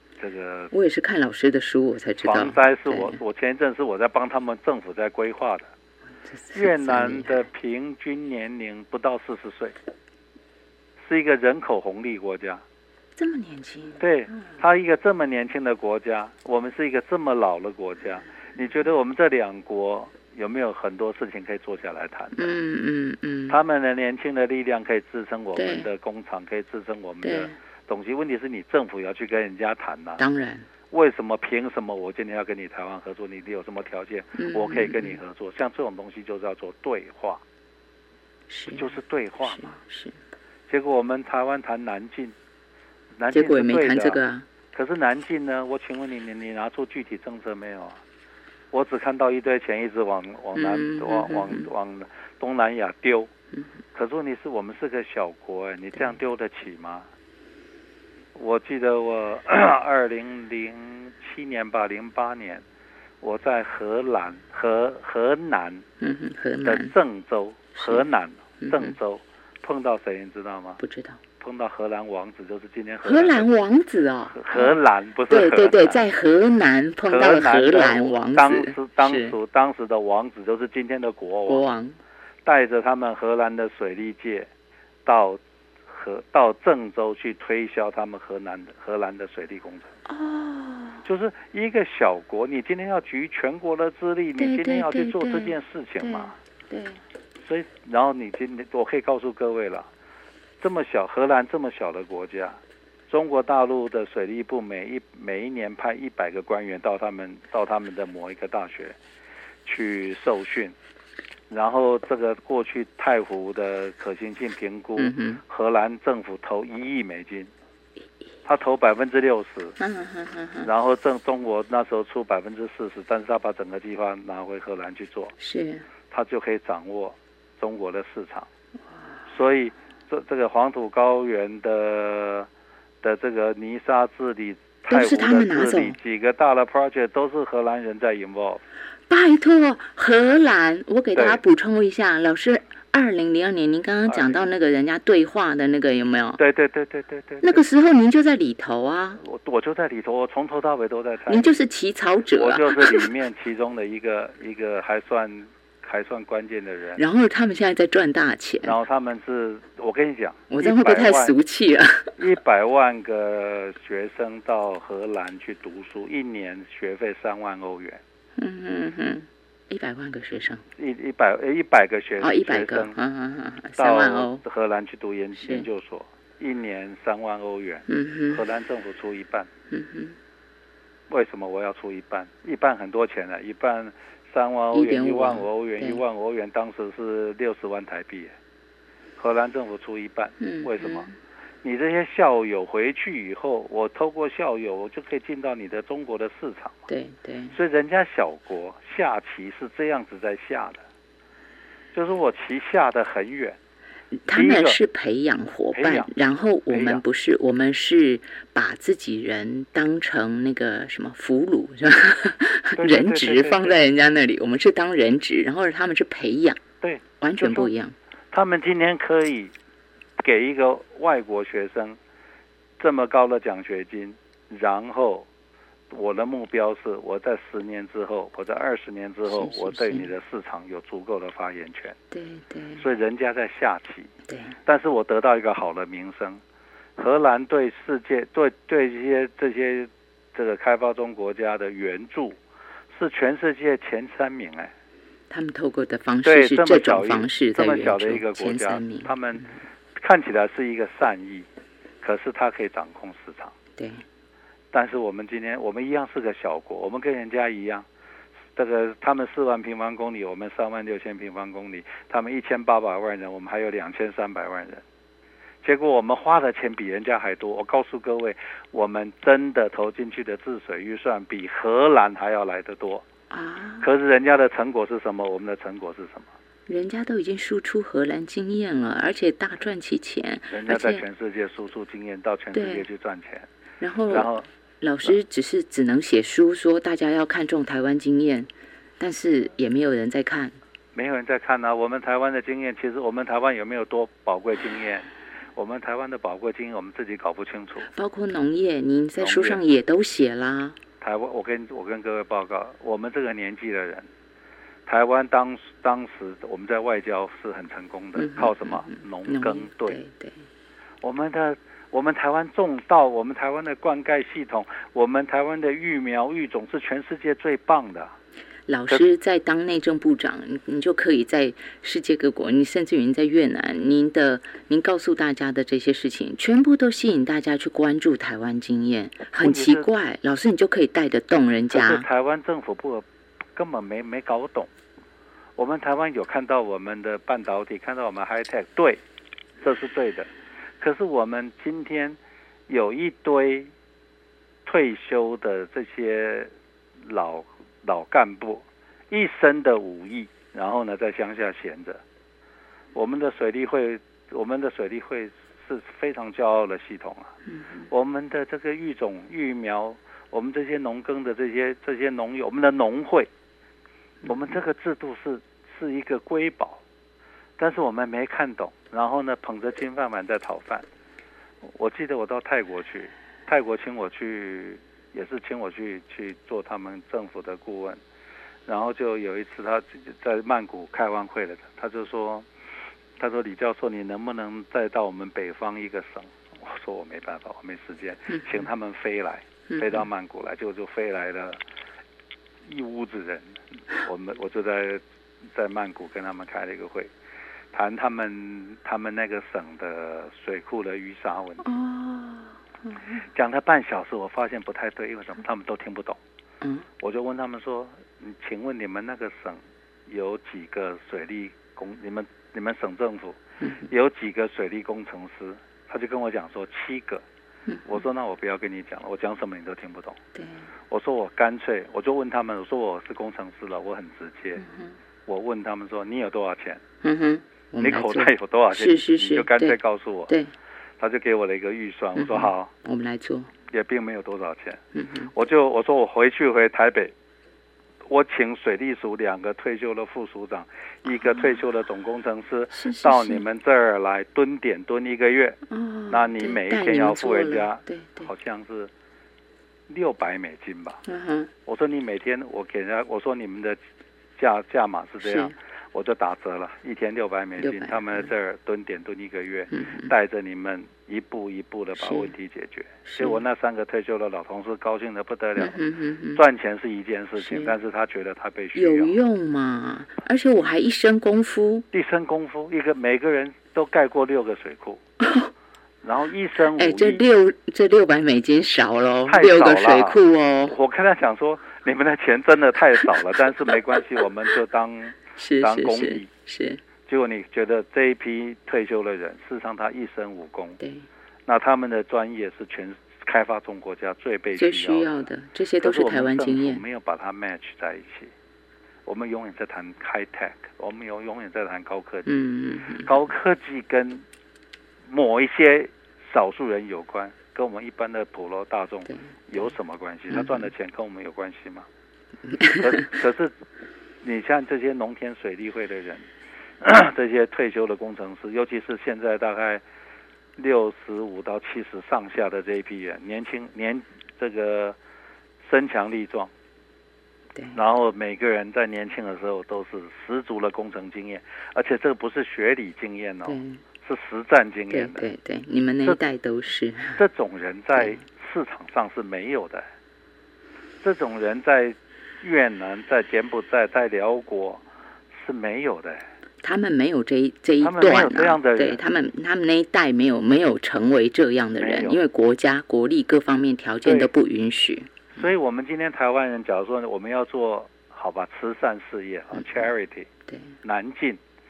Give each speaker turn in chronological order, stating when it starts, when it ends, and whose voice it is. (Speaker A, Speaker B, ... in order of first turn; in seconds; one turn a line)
Speaker A: 0.2-0.7
Speaker B: 0.7-3.2
Speaker A: 2.2-5.7
Speaker B: 6.2-7.5
Speaker A: 6.5-9.8
Speaker A: 11.0-12.6
Speaker B: 13.2-14.5
Speaker A: 14.0-22.6
Speaker B: 22.4-23.6
Speaker A: 23.5-30.2
Speaker B: 25.6-25.9
Speaker B: 27.2-27.5
Speaker B: 30.2-30.7
Speaker A: 30.9-37.4
Speaker B: 34.4-35.2
Speaker B: 38.5-38.9
Speaker A: 38.7-39.7
Speaker B: 39.5-40.2
Speaker A: 40.7-42.4
Speaker A: 43.2-44.2
Speaker B: 43.3-44.5
Speaker A: 44.7-48.0
Speaker A: 48.7-53.3
Speaker B: 50.5-51.7
Speaker A: 53.9-57.1
Speaker A: 58.4-62.6
Speaker A: 63.2-65.8
Speaker B: 66.0-66.9
Speaker A: 66.6-70.8
Speaker B: 67.8-68.0
Speaker B: 68.6-69.0
Speaker B: 70.8-71.2
Speaker A: 71.4-73.5
Speaker B: 73.0-74.8
Speaker A: 74.3-76.0
Speaker B: 75.3-79.4
Speaker A: 77.1-81.6
Speaker B: 81.5-82.0
Speaker A: 82.5-84.5
Speaker A: 85.1-89.9
Speaker B: 90.1-91.0
Speaker A: 91.0-96.3
Speaker B: 94.4-97.0
Speaker A: 97.4-99.9
Speaker A: 100.6-109.0
Speaker A: 109.7-110.8
Speaker A: 111.5-117.5
Speaker B: 115.0-115.4
Speaker A: 118.5-119.8
Speaker B: 119.8-120.7
Speaker A: 120.6-125.3
Speaker B: 125.4-125.9
Speaker A: 126.1-128.5
Speaker A: 129.3-132.5
Speaker A: 133.0-138.6
Speaker B: 134.9-136.0
Speaker B: 139.1-146.4
Speaker A: 141.1-141.4
Speaker A: 144.1-144.4
Speaker A: 146.4-147.6
Speaker B: 147.4-149.2
Speaker A: 149.2-151.6
Speaker B: 151.3-153.1
Speaker A: 152.3-157.0
Speaker B: 157.0-158.8
Speaker A: 158.6-161.3
Speaker B: 160.5-162.2
Speaker A: 162.2-168.0
Speaker B: 168.4-170.6
Speaker A: 170.8-173.0
Speaker B: 172.2-174.4
Speaker A: 173.8-179.5
Speaker B: 175.4-175.7
Speaker B: 177.9-178.4
Speaker B: 179.7-180.2
Speaker A: 181.1-188.3
Speaker B: 184.7-186.0
Speaker A: 189.2-191.1
Speaker B: 190.4-191.1
Speaker A: 191.6-196.9
Speaker B: 196.9-197.6
Speaker A: 197.5-200.8
Speaker A: 201.9-203.6
Speaker B: 204.1-216.6
Speaker A: 204.3-204.8
Speaker A: 205.7-206.1
Speaker A: 206.7-207.0
Speaker A: 212.8-213.8
Speaker A: 216.8-217.7
Speaker B: 217.2-217.9
Speaker A: 218.3-219.5
Speaker A: 220.2-222.0
Speaker A: 222.8-225.3
Speaker A: 225.9-232.0
Speaker B: 229.3-230.1
Speaker B: 232.1-232.8
Speaker A: 232.8-234.1
Speaker B: 234.3-234.6
Speaker A: 234.7-236.4
Speaker A: 237.0-242.4
Speaker A: 242.9-244.7
Speaker B: 245.3-249.1
Speaker A: 246.2-251.5
Speaker A: 252.0-253.6
Speaker B: 253.8-254.1
Speaker A: 254.7-257.9
Speaker A: 258.6-264.8
Speaker A: 265.6-273.1
Speaker B: 273.3-273.9
Speaker A: 273.8-276.3
Speaker B: 276.7-281.0
Speaker A: 280.5-283.5
Speaker B: 282.5-282.9
Speaker B: 283.8-284.3
Speaker A: 284.1-284.5
Speaker B: 284.8-290.6
Speaker A: 290.9-297.9
Speaker B: 297.9-300.8
Speaker A: 299.2-299.6
Speaker A: 301.0-304.1
Speaker A: 304.9-310.0
Speaker B: 308.2-310.5
Speaker A: 311.0-318.1
Speaker B: 318.7-332.1
Speaker A: 329.4-329.9
Speaker A: 331.7-334.7
Speaker A: 335.6-339.0
Speaker A: 339.6-343.7
Speaker A: 344.6-346.5
Speaker A: 347.0-352.0
Speaker A: 352.9-357.4
Speaker B: 357.5-357.9
Speaker A: 357.9-363.3
Speaker A: 364.3-366.8
Speaker A: 367.6-370.9
Speaker A: 371.6-378.0
Speaker A: 378.7-382.5
Speaker A: 383.2-391.6
Speaker B: 389.7-390.1
Speaker A: 392.6-397.1
Speaker A: 397.7-401.7
Speaker B: 401.6-403.2
Speaker A: 403.3-406.2
Speaker A: 407.0-417.2
Speaker B: 413.6-413.9
Speaker A: 417.9-420.2
Speaker B: 420.4-420.7
Speaker A: 420.9-424.6
Speaker B: 424.6-425.0
Speaker A: 425.3-426.8
Speaker B: 427.0-430.5
Speaker A: 427.8-430.3
Speaker A: 431.0-432.7
Speaker B: 432.2-433.5
Speaker A: 433.7-434.8
Speaker B: 434.9-435.3
Speaker A: 435.3-437.1
Speaker A: 438.1-445.6
Speaker B: 442.7-443.4
Speaker B: 445.7-448.3
Speaker A: 446.1-448.9
Speaker A: 449.9-451.0
Speaker B: 451.1-451.5
Speaker A: 451.7-453.8
Speaker A: 454.4-465.8
Speaker B: 455.2-455.6
Speaker B: 457.6-458.3
Speaker B: 459.7-460.1
Speaker B: 462.0-462.3
Speaker B: 463.1-463.4
Speaker B: 465.6-466.4
Speaker A: 466.3-469.2
Speaker B: 467.4-467.8
Speaker B: 468.8-471.9
Speaker A: 471.9-475.0
Speaker B: 475.2-475.5
Speaker A: 476.0-477.2
Speaker B: 476.8-480.8
Speaker A: 479.3-486.3
Speaker B: 485.4-486.8
Speaker A: 487.1-490.8
Speaker B: 490.8-491.1
Speaker A: 491.5-495.3
Speaker B: 494.6-496.8
Speaker A: 495.8-498.3
Speaker A: 499.1-502.3
Speaker B: 502.3-503.1
Speaker A: 503.0-504.2
Speaker A: 505.1-511.9
Speaker B: 510.3-510.7
Speaker B: 512.5-513.1
Speaker A: 512.8-513.6
Speaker A: 514.2-516.3
Speaker A: 516.8-519.8
Speaker A: 520.6-525.0
Speaker A: 525.6-526.5
Speaker A: 527.8-535.3
Speaker B: 533.5-533.8
Speaker B: 534.9-537.2
Speaker A: 537.2-539.9
Speaker A: 541.0-546.3
Speaker B: 546.6-555.3
Speaker A: 547.8-549.0
Speaker A: 551.8-552.2
Speaker A: 554.0-554.3
Speaker A: 555.4-560.3
Speaker B: 560.5-560.8
Speaker A: 560.8-561.4